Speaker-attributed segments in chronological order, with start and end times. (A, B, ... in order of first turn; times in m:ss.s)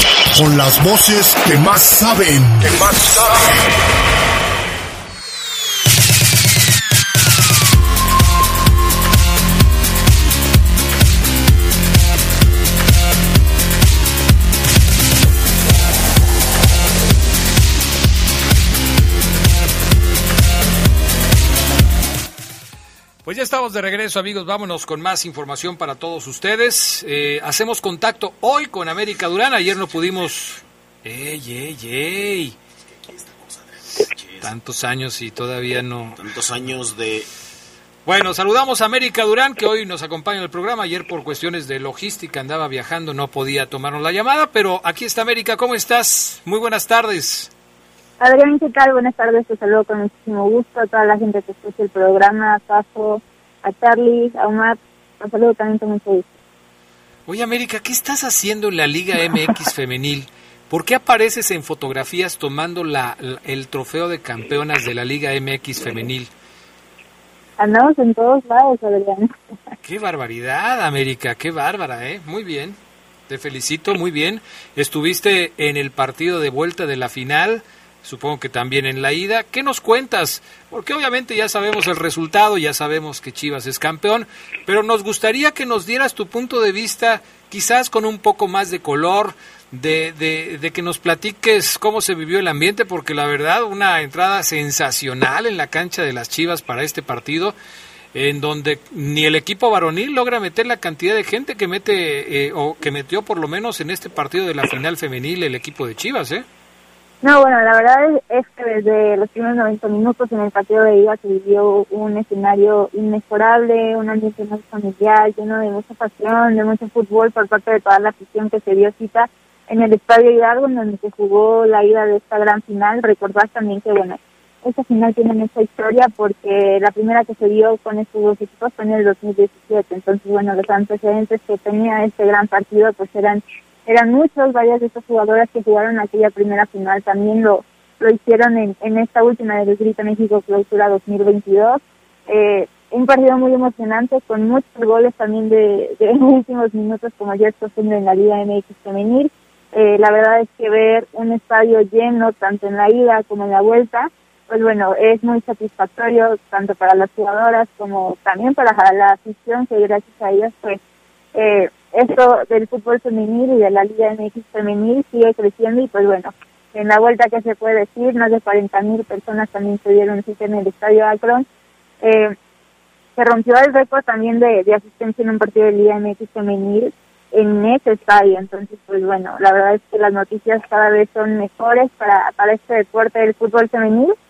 0:00.4-0:02.9 A
0:23.2-0:32.6 B
0:32.8-0:34.5 C
0:34.4-0:36.2 B
0:36.2-0:37.3 C
0:38.0-0:47.5 B
0:48.2-0:56.2 D
0:57.3-1:06.3 B
1:07.6-1:09.5 D
1:09.8-1:12.8 B
1:13.3-1:37.6 B
1:38.1-1:46.4 B
1:47.2-2:40.8 D
2:41.3-2:51.4 D
2:52.0-2:52.3 D
2:53.2-3:04.1 D